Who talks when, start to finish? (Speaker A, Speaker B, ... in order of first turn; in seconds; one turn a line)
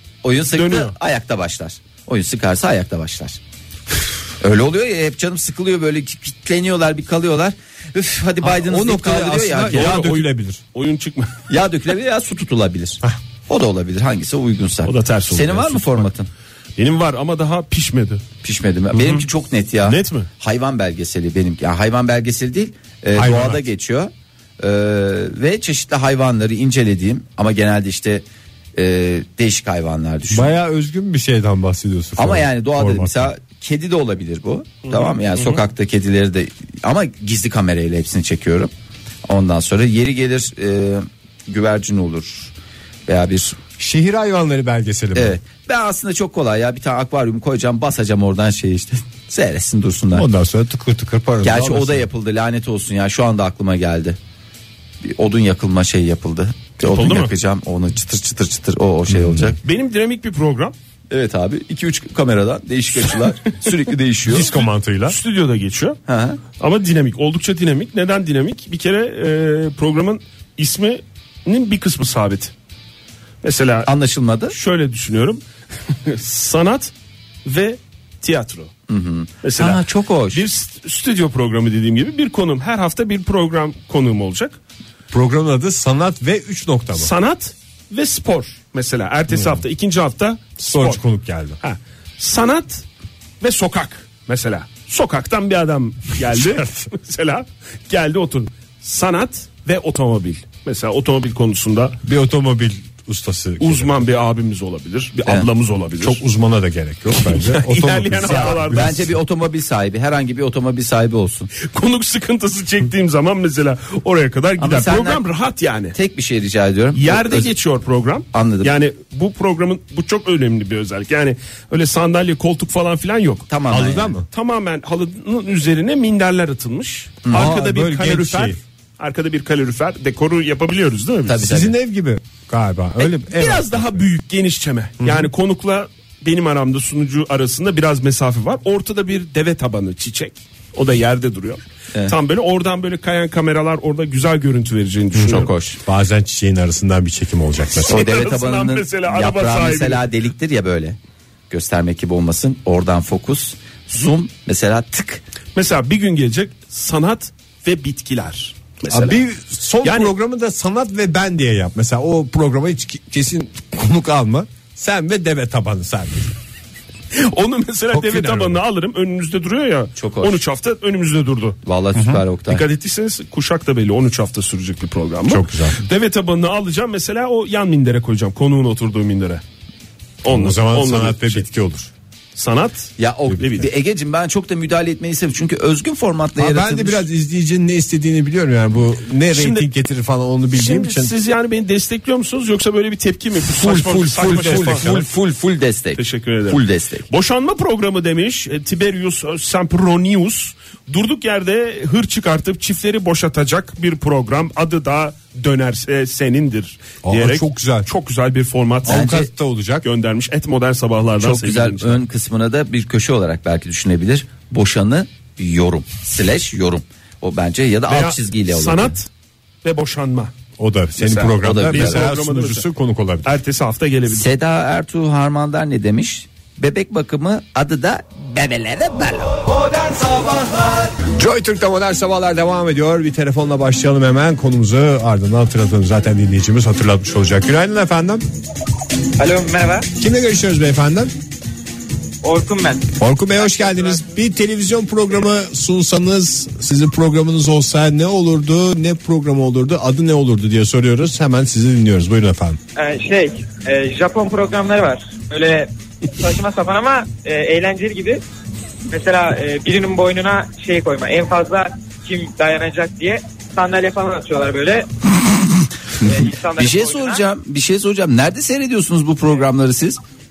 Speaker A: 0.2-3.4
Speaker B: 0.5-0.9
Speaker A: 4.4-10.0
Speaker C: 8.4-10.6
Speaker B: 9.7-11.3
Speaker A: 11.5-16.3
Speaker B: 14.8-16.1
Speaker B: 16.8-18.2
Speaker A: 18.4-30.5
Speaker B: 18.9-19.2
Speaker B: 19.8-20.3
Speaker C: 23.1-23.6
Speaker C: 30.3-33.3
Speaker A: 32.2-38.7
Speaker B: 34.9-35.6
Speaker A: 39.2-42.5
Speaker A: 43.1-43.6
Speaker C: 43.8-45.4
Speaker A: 45.1-50.3
Speaker C: 50.1-52.1
Speaker A: 51.4-54.2
Speaker A: 55.0-59.6
Speaker B: 56.9-57.3
Speaker C: 59.1-59.6
Speaker B: 59.6-60.8
Speaker A: 61.1-64.5
Speaker C: 64.3-65.2
Speaker B: 65.1-66.0
Speaker A: 66.1-66.4
Speaker B: 66.6-72.5
Speaker B: 73.4-73.9
Speaker A: 73.8-74.5
Speaker B: 74.5-75.4
Speaker B: 75.9-76.9
Speaker B: 77.5-78.7
Speaker A: 78.9-80.4
Speaker B: 79.4-84.6
Speaker C: 85.1-87.1
Speaker B: 87.0-91.0
Speaker C: 89.3-89.6
Speaker C: 90.6-91.6
Speaker B: 91.6-92.8
Speaker B: 93.4-102.0
Speaker C: 96.4-96.9
Speaker C: 102.0-104.0
Speaker B: 103.6-106.2
Speaker C: 106.0-109.1
Speaker B: 107.2-109.1
Speaker A: 108.4-111.5
Speaker B: 111.6-116.0
Speaker A: 114.6-115.2
Speaker A: 115.9-117.5
Speaker B: 116.9-123.5
Speaker A: 118.3-118.7
Speaker A: 123.5-124.1
Speaker C: 123.7-124.3
Speaker B: 124.3-131.4
Speaker A: 127.2-127.5
Speaker C: 127.3-128.6
Speaker A: 131.3-131.8
Speaker C: 131.4-134.0
Speaker B: 133.0-145.5
Speaker C: 135.0-135.3
Speaker C: 145.2-148.1
Speaker A: 145.2-145.8
Speaker B: 147.8-150.0
Speaker A: 147.9-151.0
Speaker A: 151.5-155.2
Speaker B: 155.6-159.2
Speaker C: 158.9-166.3
Speaker B: 159.8-160.1
Speaker B: 167.1-171.6
Speaker C: 167.9-168.6
Speaker A: 170.0-170.4
Speaker A: 171.7-172.6
Speaker C: 171.9-172.2
Speaker B: 172.5-179.4
Speaker C: 175.2-175.8
Speaker B: 180.2-181.4
Speaker C: 180.3-181.9
Speaker B: 182.4-183.7
Speaker A: 183.0-187.1
Speaker C: 186.4-191.1
Speaker B: 189.3-189.7
Speaker B: 190.5-194.8
Speaker C: 193.5-195.1
Speaker A: 194.2-197.1
Speaker B: 196.0-209.2
Speaker C: 207.0-207.9
Speaker C: 208.8-209.9
Speaker A: 208.9-209.3
Speaker B: 209.8-212.0
Speaker A: 211.2-218.9
Speaker B: 217.9-219.1
Speaker B: 219.6-220.3
Speaker C: 220.6-223.4
Speaker B: 221.0-222.7
Speaker A: 221.4-222.0
Speaker B: 223.2-224.3
Speaker A: 224.1-230.5
Speaker C: 231.2-238.2
Speaker D: 239.2-239.9
Speaker C: 240.0-241.1
Speaker D: 242.2-244.0
Speaker C: 243.0-252.6
Speaker D: 252.8-258.2
Speaker D: 258.9-264.9
Speaker D: 266.0-267.2
Speaker A: 266.0-270.0